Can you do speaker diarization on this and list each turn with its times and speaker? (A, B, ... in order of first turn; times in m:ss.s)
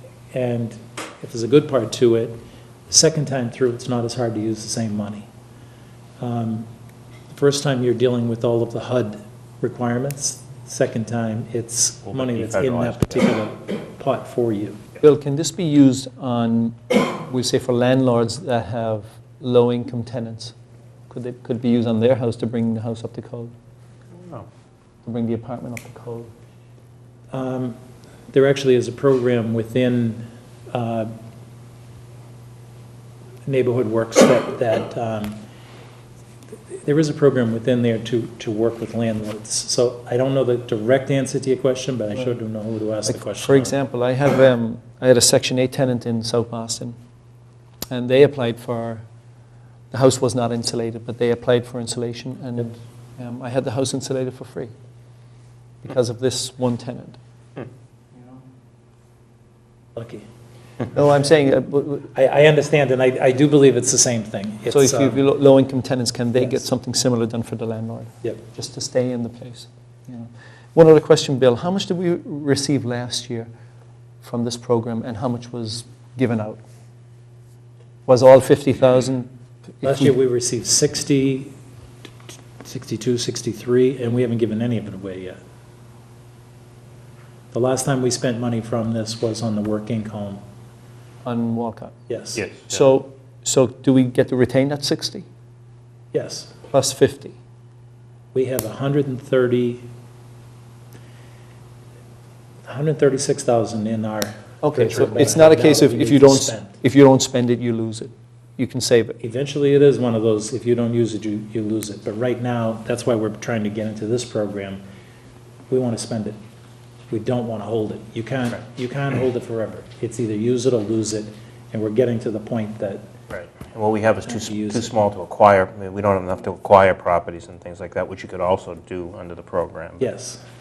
0:00.3-0:05.3 A
0:06.2-0:06.7 A
0:07.3-0:14.8 A
0:12.1-0:13.3 B
0:15.0-0:20.5 C
0:21.1-0:23.5 C
0:24.1-0:24.5 B
0:25.0-0:26.3 C
0:27.3-0:27.8 A
0:28.3-0:31.1 A
0:33.4-0:35.4 A
0:36.7-0:43.7 A
0:43.0-0:47.0 C
0:47.9-0:49.0 C
0:49.9-0:54.7 C
0:55.8-0:57.2 C
1:00.0-1:00.2 A
1:00.9-1:02.1 C
1:02.1-1:05.2 A
1:04.7-1:09.7 C
1:10.7-1:13.5 C
1:14.2-1:16.6 C
1:18.0-1:19.3 C
1:19.8-1:20.1 C
1:19.8-1:21.5 A
1:22.6-1:25.4 A
1:27.5-1:30.4 A
1:31.2-1:31.9 C
1:32.1-1:32.4 A
1:32.4-1:32.8 B
1:32.7-1:35.2 C
1:36.1-1:36.5 A
1:36.7-1:37.4 C
1:38.3-1:39.9 A
1:42.6-1:46.8 A
1:44.6-1:49.2 C
1:49.2-1:54.8 A
1:55.7-1:56.4 A
1:57.1-2:03.1 A
2:03.3-2:10.1 B
2:04.2-2:05.0 A
2:10.0-2:10.4 A